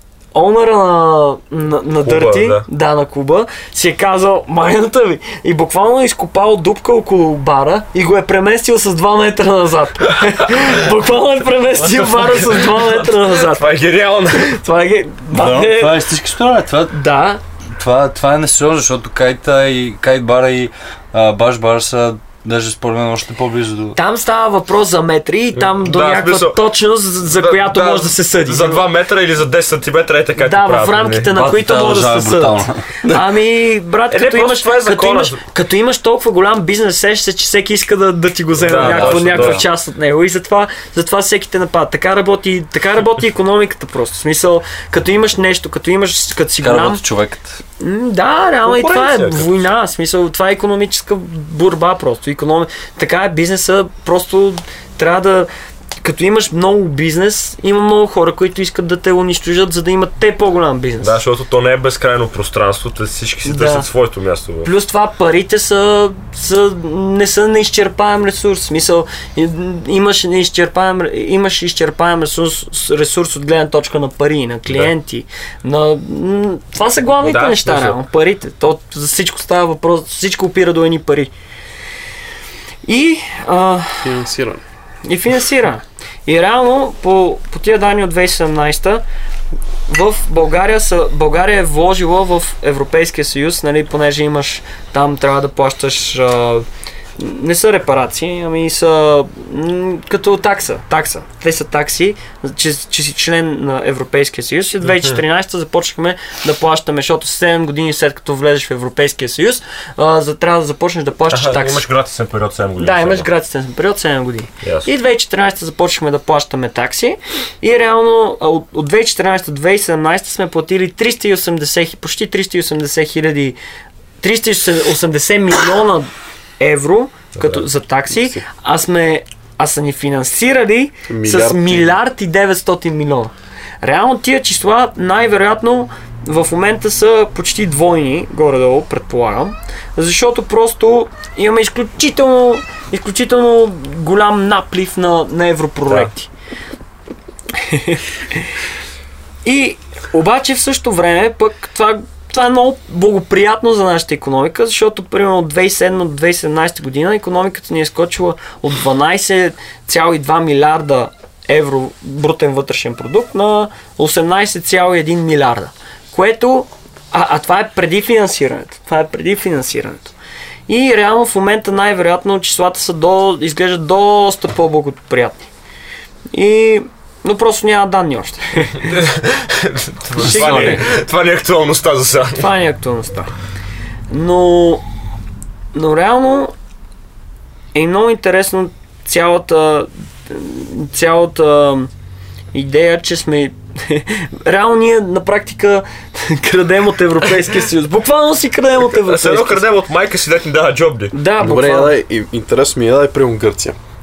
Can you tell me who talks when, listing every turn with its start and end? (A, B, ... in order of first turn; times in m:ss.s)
0:00.3-0:13.6 A
0:02.0-0:02.6 B
0:11.8-0:14.5 B
0:14.3-0:16.0 A
0:15.3-0:17.0 C
0:16.9-0:17.4 A
0:17.8-0:24.0 C
0:24.0-0:28.8 A
0:25.5-0:26.6 B
0:27.2-0:31.4 B
0:30.4-0:47.0 A
0:31.3-0:32.9 C
0:34.1-0:35.4 B
0:38.6-0:39.6 B
0:38.7-0:39.6 C
0:46.6-0:47.6 C
0:47.8-0:55.5 A
0:48.6-0:49.6 B
0:56.0-1:01.2 A
1:01.0-1:04.7 B
1:03.4-1:03.9 A
1:04.6-1:21.3 A
1:17.2-1:18.0 B
1:22.8-1:24.1 A
1:24.0-1:24.6 D
1:25.0-1:29.0 A
1:29.9-1:36.6 A
1:37.2-1:51.8 A
1:44.8-1:45.2 B
1:51.3-1:53.3 B
1:52.8-2:03.6 A
1:54.6-1:54.9 B
2:04.2-2:26.3 A
2:07.4-2:07.6 B
2:08.1-2:08.4 D
2:11.1-2:11.9 D
2:27.5-2:28.4 A
2:29.4-2:50.1 A
2:50.7-2:55.5 A
2:56.3-2:58.9 A
2:58.8-3:02.5 B
3:00.2-3:00.9 A
3:00.4-3:00.7 D
3:02.4-3:03.3 A
3:04.1-3:04.8 A
3:05.7-3:06.5 A
3:07.7-3:11.9 A
3:12.5-3:19.6 A
3:18.8-3:21.1 B
3:21.1-3:21.9 A
3:21.4-3:23.8 D